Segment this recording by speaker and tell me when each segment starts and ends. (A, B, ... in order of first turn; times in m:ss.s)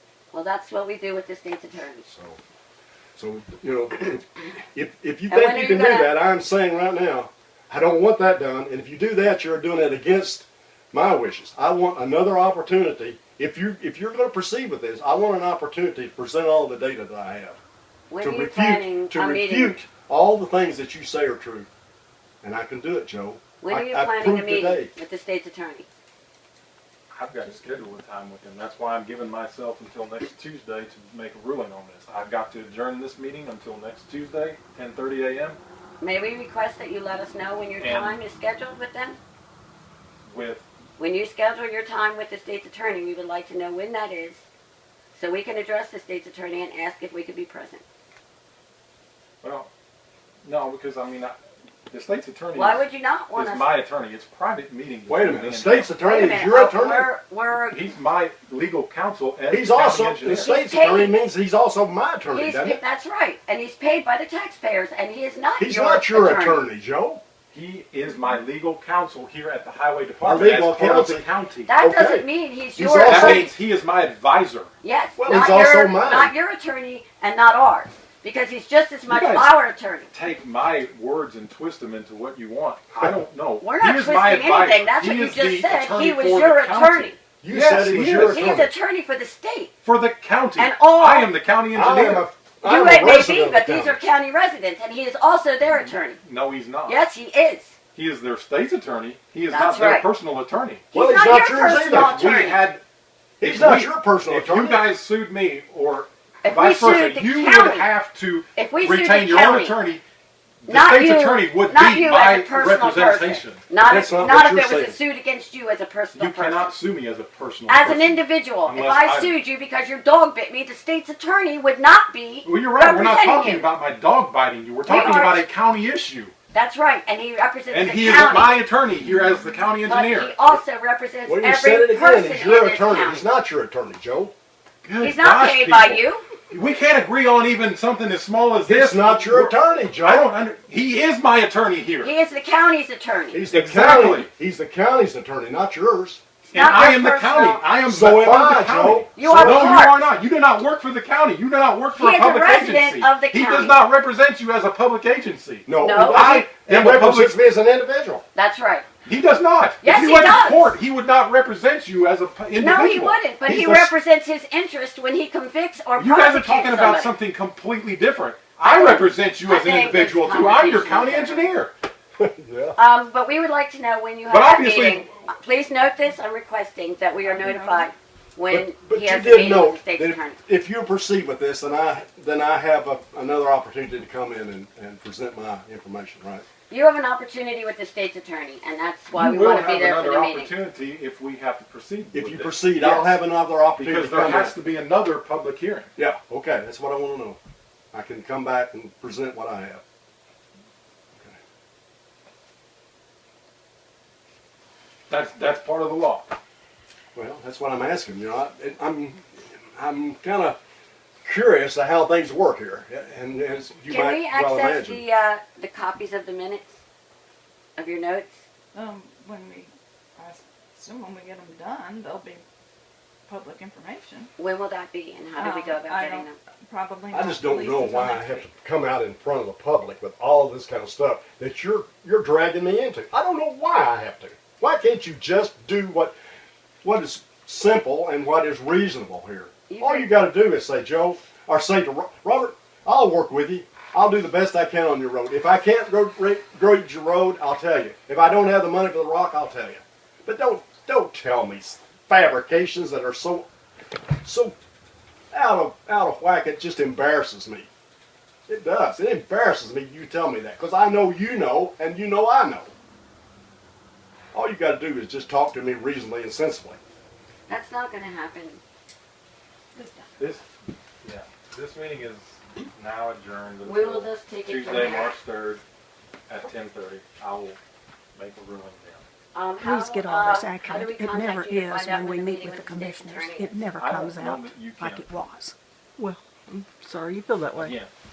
0:00.3-0:02.0 A
0:02.1-0:02.4 B
0:03.2-0:17.6 B
0:05.3-0:06.1 A
0:18.1-0:19.8 A
0:18.2-0:21.7 B
0:22.4-0:24.9 B
0:23.6-0:25.9 A
0:27.1-0:35.6 C
0:36.0-0:39.2 A
0:37.8-0:38.2 C
0:40.3-0:40.7 C
0:41.0-0:44.4 A
0:45.1-0:47.8 A
0:49.4-0:49.7 C
0:50.4-0:51.4 C
0:51.9-0:52.8 C
0:52.5-0:53.7 A
0:53.3-0:55.9 C
0:55.1-0:57.1 B
0:56.0-0:57.8 A
0:57.7-1:00.5 C
0:59.5-1:02.8 B
1:00.3-1:01.2 A
1:02.3-1:06.7 A
1:05.6-1:07.2 B
1:07.5-1:11.7 C
1:10.2-1:11.2 B
1:11.6-1:13.5 A
1:11.8-1:13.5 B
1:13.0-1:14.7 C
1:14.8-1:20.1 A
1:15.2-1:16.3 B
1:19.1-1:19.6 C
1:20.1-1:28.5 C
1:23.6-1:27.2 A
1:27.4-1:28.7 B
1:28.2-1:29.7 A
1:29.8-1:32.3 C
1:30.6-1:31.3 A
1:31.7-1:34.0 B
1:32.6-1:36.2 A
1:35.7-1:37.0 C
1:36.9-1:37.7 A
1:38.0-1:40.8 C
1:39.5-1:40.1 A
1:40.9-1:42.7 A
1:40.9-1:42.3 B
1:41.7-1:42.8 C
1:43.4-1:44.8 B
1:43.4-1:50.0 C
1:46.4-1:47.9 A
1:48.6-1:49.8 A
1:50.7-1:53.6 C
1:50.7-1:56.7 A
1:53.9-1:55.0 B
1:56.2-1:59.3 C
1:57.7-2:03.7 A
2:02.4-2:06.3 C
2:04.8-2:05.5 A
2:06.5-2:08.6 A
2:07.7-2:10.6 C
2:09.9-2:13.3 A
2:11.3-2:14.3 B
2:14.8-2:22.1 C
2:15.0-2:16.2 A
2:18.6-2:20.3 B
2:22.0-2:23.4 A
2:23.3-2:26.2 B
2:23.5-2:24.3 C
2:26.4-2:27.6 A
2:26.5-2:37.5 C
2:27.9-2:29.9 B
2:29.2-2:30.1 A
2:31.9-2:33.8 A
2:35.7-2:38.2 B
2:35.8-2:36.4 A
2:38.4-2:38.9 A
2:39.0-2:43.9 C
2:39.8-2:40.7 A
2:42.6-2:47.1 A
2:46.0-2:51.7 C
2:48.6-2:51.5 A
2:52.2-2:52.8 B
2:52.8-3:00.4 A
2:54.3-2:55.0 C
2:57.2-2:57.9 D
2:58.5-3:06.5 B
3:06.7-3:10.6 A
3:09.1-3:13.2 C
3:12.1-3:14.5 B
3:13.8-3:15.9 C
3:16.0-3:17.4 B
3:17.9-3:19.8 B
3:25.1-3:26.3 C
3:27.2-3:30.6 B
3:31.2-3:35.0 B
3:33.9-3:36.8 A
3:37.8-3:38.4 A
3:38.7-3:42.4 D
3:43.3-3:44.3 D
3:44.4-3:46.4 A
3:45.4-3:48.5 D
3:47.1-3:56.2 B
3:56.8-4:13.5 B
3:59.7-4:00.1 A
4:14.2-4:14.6 B
4:15.3-4:17.7 B
4:18.5-4:22.7 B
4:24.3-4:26.8 B
4:27.5-4:28.6 A
4:29.8-4:30.2 A
4:30.2-4:30.5 C
4:31.0-4:35.6 C
4:33.6-4:35.2 A
4:36.3-4:37.6 C
4:38.1-4:39.0 C
4:39.3-4:43.7 A
4:39.6-4:47.7 E
4:43.8-4:45.1 C
4:47.6-4:47.9 C